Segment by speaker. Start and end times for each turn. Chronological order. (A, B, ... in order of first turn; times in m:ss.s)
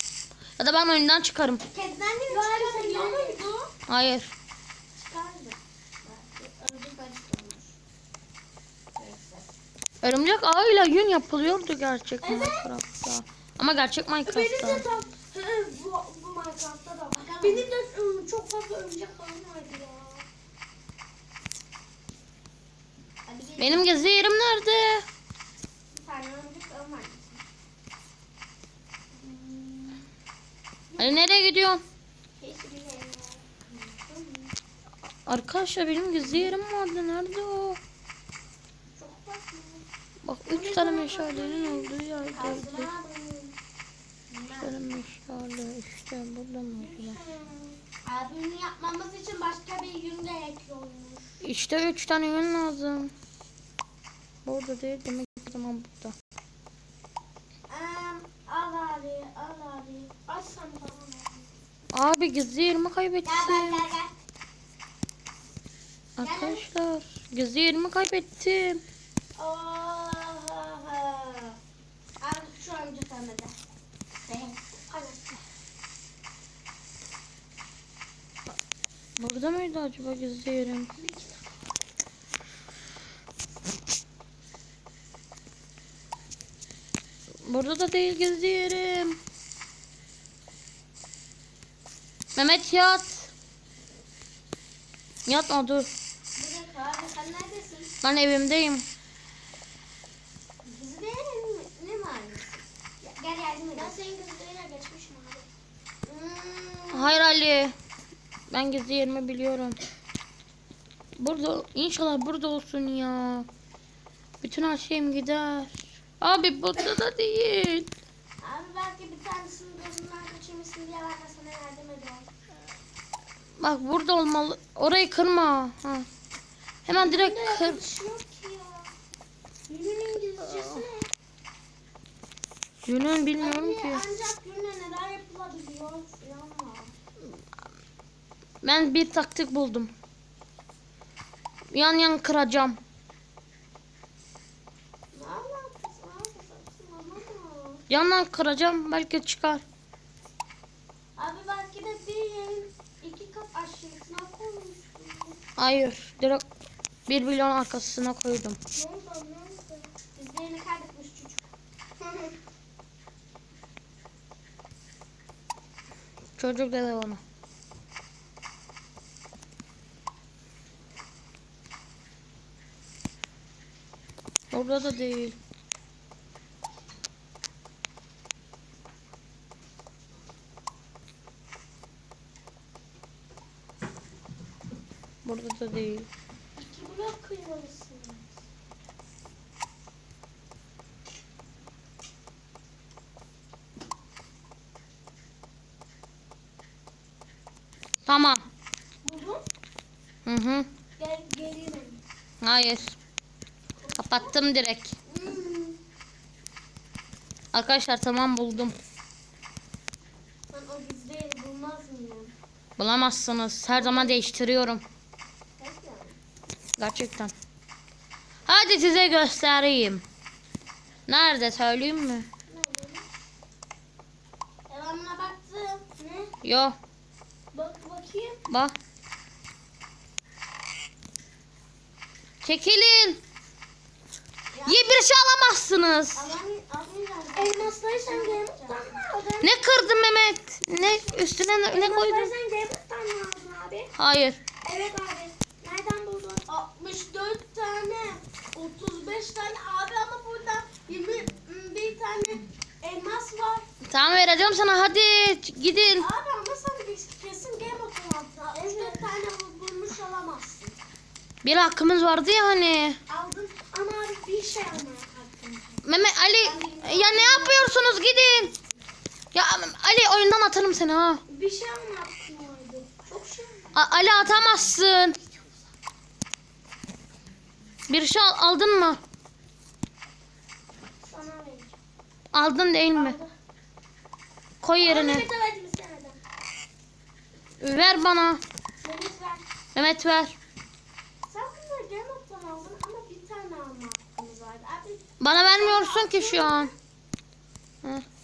0:00.6-0:01.6 A
0:01.7-0:03.7 B
0:02.3-0:03.5 C
0:03.9-0:04.3 A
0:05.0-0:07.8 B
0:09.0-0:09.5 B
0:10.0-0:14.8 A
0:12.2-0:12.7 C
0:14.3-0:20.2 C
0:17.2-0:17.7 B
0:23.3-0:23.9 B
0:23.6-0:25.0 A
0:25.9-0:27.4 B
0:29.2-0:30.0 B
0:30.9-0:31.3 B
0:31.0-0:31.8 A
0:32.4-0:34.5 B
0:35.3-0:37.8 A
0:39.0-0:39.8 B
0:40.2-0:42.9 A
0:40.5-0:43.6 B
0:40.7-0:41.7 C
0:44.3-0:44.9 B
0:44.6-0:47.2 A
0:46.8-0:47.8 C
0:48.0-0:51.4 B
0:51.4-0:53.1 A
0:54.4-0:56.2 A
0:57.7-1:00.2 B
1:00.3-1:01.5 C
1:01.9-1:03.8 A
1:03.2-1:04.1 B
1:06.2-1:08.8 A
1:06.2-1:06.6 B
1:09.4-1:11.6 B
1:12.2-1:13.6 B
1:14.2-1:14.6 B
1:14.9-1:15.3 C
1:19.2-1:20.9 A
1:21.0-1:21.4 C
1:27.4-1:29.2 A
1:32.4-1:33.3 A
1:35.3-1:35.9 A
1:36.4-1:37.9 B
1:38.0-1:38.8 A
1:40.6-1:44.0 B
1:43.8-1:45.5 C
1:46.0-1:47.2 B
1:46.9-1:47.7 A
1:48.5-1:49.8 A
1:51.2-1:53.5 A
1:54.4-1:57.9 A
1:58.4-2:02.3 B
2:03.6-2:06.1 A
2:06.9-2:07.8 A
2:07.0-2:08.9 B
2:09.7-2:10.8 B
2:10.0-2:10.9 C
2:12.8-2:14.0 A
2:13.4-2:16.9 B
2:18.6-2:19.9 A
2:21.7-2:22.8 A
2:25.1-2:27.8 B
2:27.9-2:29.6 A
2:31.2-2:35.4 B
2:35.6-2:36.4 A
2:37.1-2:38.6 A
2:38.8-2:39.9 C
2:40.2-2:41.5 B
2:42.0-2:42.4 B
2:46.4-2:47.2 A
2:54.5-2:55.4 A
3:05.2-3:06.1 A
3:06.6-3:08.4 C
3:18.1-3:18.4 A
3:19.0-3:19.4 C
3:20.3-3:20.7 A
3:21.0-3:22.0 C
3:22.4-3:23.0 A
3:23.8-3:24.4 B
3:24.0-3:25.0 A
3:25.1-3:25.8 B
3:27.5-3:28.8 A
3:30.5-3:32.3 B
3:32.8-3:34.8 A
3:33.8-3:34.2 B
3:35.6-3:36.2 B
3:36.8-3:37.3 A
3:38.5-3:40.0 A
3:41.1-3:42.3 A
3:42.5-3:43.0 C
3:42.6-3:43.0 B
3:44.7-3:46.0 B
3:46.0-3:46.3 C
3:46.4-3:46.8 A
3:47.5-3:48.4 C
3:48.5-3:48.8 A
3:52.4-3:53.2 A
3:54.5-3:54.9 B
3:54.7-3:56.3 A
3:56.2-3:59.0 B
3:57.4-3:59.6 C
3:59.4-4:02.3 A
4:00.7-4:03.9 C
4:04.0-4:04.4 A
4:04.6-4:06.5 C
4:06.5-4:12.4 B
4:08.6-4:08.9 C
4:12.9-4:13.5 C
4:13.0-4:13.6 B
4:13.9-4:16.1 A
4:16.0-4:20.8 B
4:18.5-4:19.1 C
4:21.4-4:23.0 A
4:23.1-4:25.8 C
4:25.8-4:28.6 A
4:26.4-4:27.7 B
4:29.3-4:31.2 A
4:31.3-4:33.7 C
4:33.8-4:35.2 A
4:37.9-4:39.0 A
4:41.0-4:41.8 C
4:42.3-4:43.2 A
4:42.9-4:43.3 C
4:44.6-4:45.3 A
4:44.8-4:46.2 C
4:47.6-4:48.4 A
4:48.8-4:49.4 C
4:49.7-4:50.4 A
4:51.2-4:56.8 B
4:55.2-4:56.7 A